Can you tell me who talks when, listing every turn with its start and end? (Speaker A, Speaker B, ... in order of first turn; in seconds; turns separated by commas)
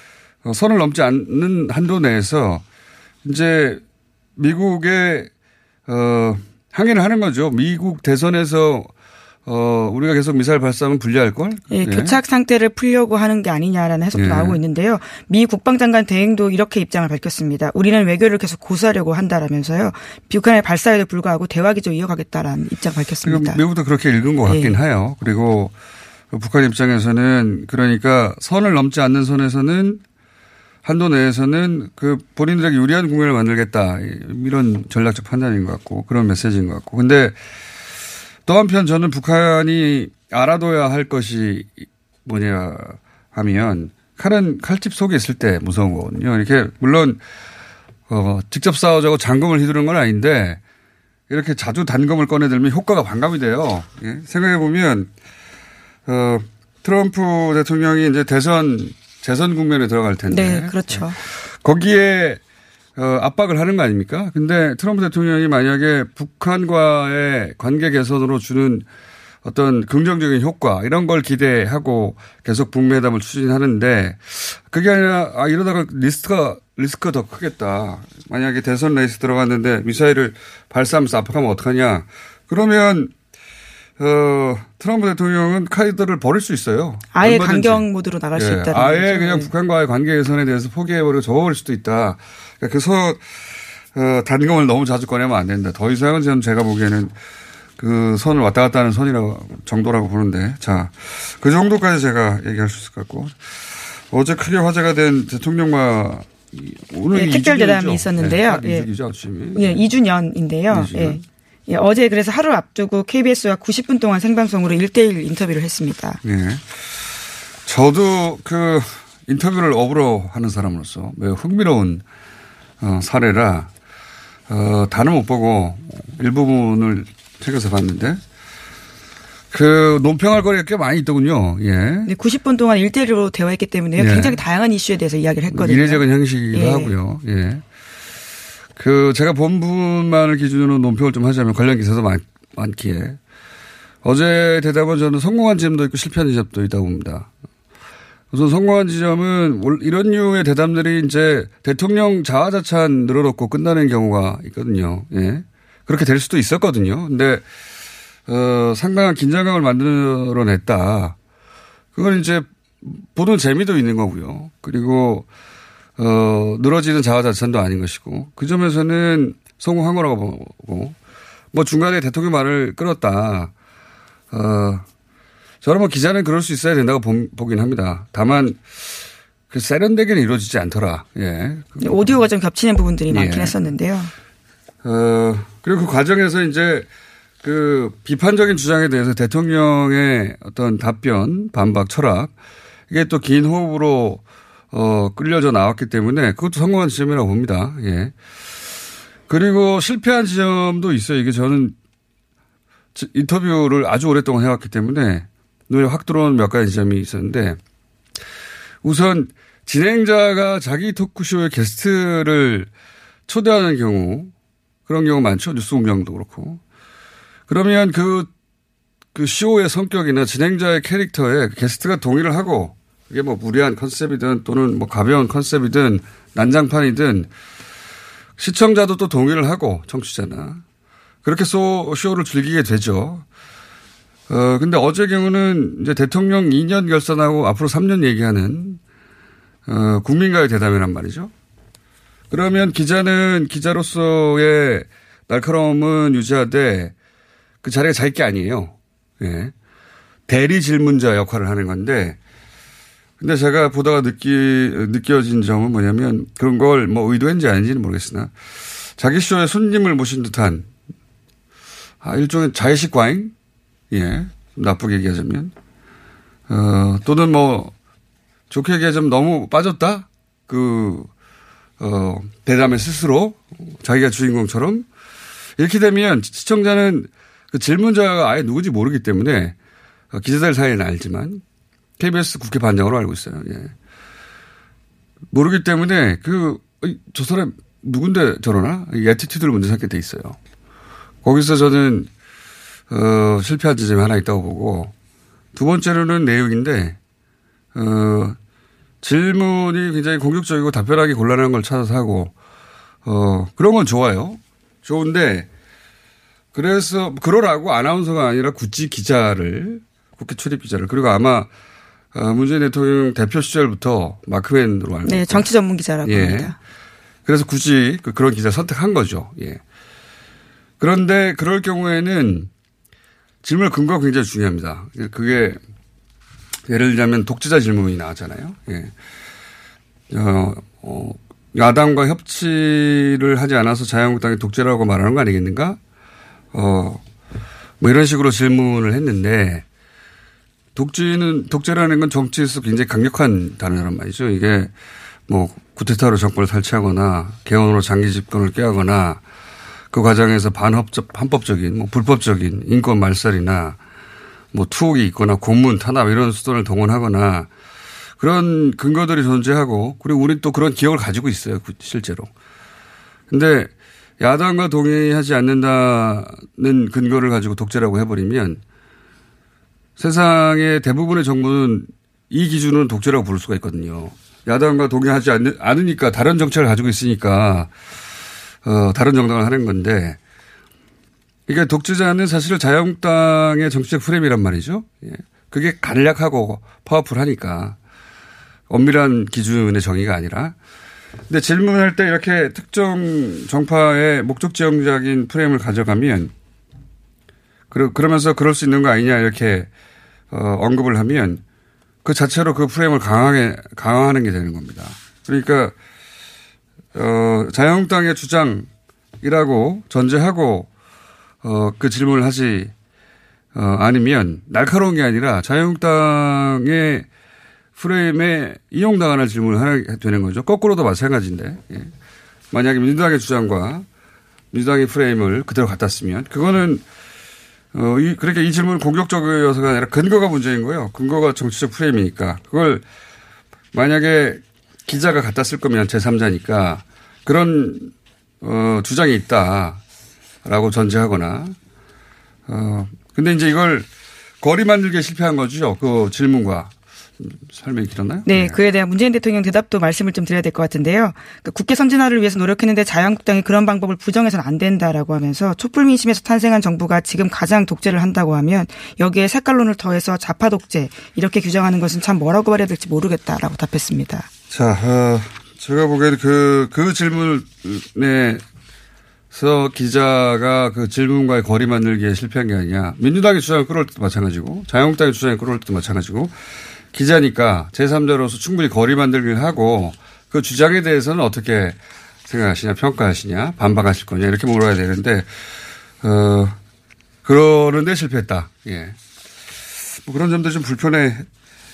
Speaker A: 0.4-2.6, Speaker A: 3.2-3.8, Speaker A: 4.3-5.3, Speaker A: 5.9-8.9, Speaker A: 9.4-12.2, Speaker B: 11.7-23.6, Speaker A: 14.1-14.6, Speaker A: 23.2-25.7, Speaker B: 24.4-24.8, Speaker A: 26.3-30.0, Speaker A: 30.8-37.4, Speaker A: 38.5-47.2, Speaker A: 48.1-50.6, Speaker A: 51.3-55.1, Speaker A: 56.0-62.4, Speaker B: 60.3-61.2, Speaker A: 63.0-68.9, Speaker A: 69.4-83.1, Speaker A: 84.0-97.1, Speaker B: 87.1-89.5, Speaker A: 97.8-109.8, Speaker B: 107.1-108.9, Speaker B: 109.5-116.2, Speaker A: 110.7-111.2, Speaker A: 116.2-117.1, Speaker A: 117.6-122.0, Speaker A: 122.8-123.7, Speaker A: 124.5-128.2, Speaker A: 129.5-132.1, Speaker B: 132.1-136.9, Speaker A: 133.9-134.4, Speaker A: 135.5-137.6, Speaker A: 138.8-143.2, Speaker A: 144.0-147.3, Speaker A: 148.3-157.4, Speaker A: 158.3-161.2, Speaker A: 161.9-165.3, Speaker A: 166.0-171.0, Speaker A: 171.5-173.5, Speaker A: 174.3-174.8, Speaker A: 175.6-182.2, Speaker B: 181.8-184.1, Speaker A: 183.1-183.6, Speaker A: 184.8-186.9, Speaker A: 187.4-192.3, Speaker A: 192.9-198.1, Speaker A: 199.3-201.8, Speaker A: 202.9-207.6, Speaker A: 208.8-212.7, Speaker A: 213.3-214.3, Speaker A: 214.9-216.6, Speaker A: 217.5-218.3, Speaker A: 219.1-227.3, Speaker A: 228.4-230.6, Speaker A: 231.2-233.2, Speaker A: 234.3-238.8, Speaker A: 239.7-241.3, Speaker A: 242.3-246.9, Speaker A: 247.6-249.5, Speaker A: 250.3-252.2, Speaker A: 253.2-258.3, Speaker A: 259.0-260.7, Speaker A: 262.0-263.3, Speaker A: 263.9-265.5, Speaker A: 266.5-267.7, Speaker A: 268.5-271.1, Speaker A: 271.8-274.9, Speaker A: 275.6-279.6, Speaker A: 280.1-281.4, Speaker A: 282.0-283.7, Speaker A: 285.3-290.4, Speaker A: 291.2-292.1, Speaker A: 292.9-294.9, Speaker A: 295.5-297.0, Speaker A: 297.7-298.4, Speaker A: 299.0-302.3, Speaker A: 303.0-305.5, Speaker A: 306.5-311.5, Speaker A: 312.1-315.5, Speaker B: 315.1-316.5, Speaker A: 316.0-316.6, Speaker A: 317.2-319.6, Speaker A: 320.8-322.5, Speaker A: 323.4-325.6, Speaker A: 326.7-328.9, Speaker A: 330.1-335.8, Speaker A: 336.5-337.0, Speaker A: 337.8-339.6, Speaker A: 340.7-344.7, Speaker A: 345.3-349.2, Speaker A: 349.9-353.8, Speaker A: 354.5-357.5, Speaker A: 358.2-362.3, Speaker A: 363.3-368.6, Speaker A: 370.0-377.7, Speaker A: 378.6-380.2, Speaker A: 381.5-387.8, Speaker A: 388.7-390.6, Speaker A: 391.3-396.3, Speaker A: 397.7-399.7, Speaker A: 400.3-401.4, Speaker A: 402.0-405.7, Speaker A: 406.9-408.7, Speaker A: 409.2-410.7, Speaker A: 411.4-412.7, Speaker A: 413.5-417.1, Speaker A: 417.8-421.9, Speaker A: 422.5-423.9, Speaker A: 424.5-426.8, Speaker A: 427.7-432.8, Speaker A: 433.7-439.8, Speaker A: 440.4-441.6, Speaker A: 442.5-443.9, Speaker A: 444.4-448.6, Speaker B: 448.3-464.3, Speaker A: 464.5-468.4, Speaker A: 469.3-476.3, Speaker A: 476.9-485.3, Speaker A: 486.0-486.6, Speaker A: 487.2-489.0, Speaker A: 489.5-491.3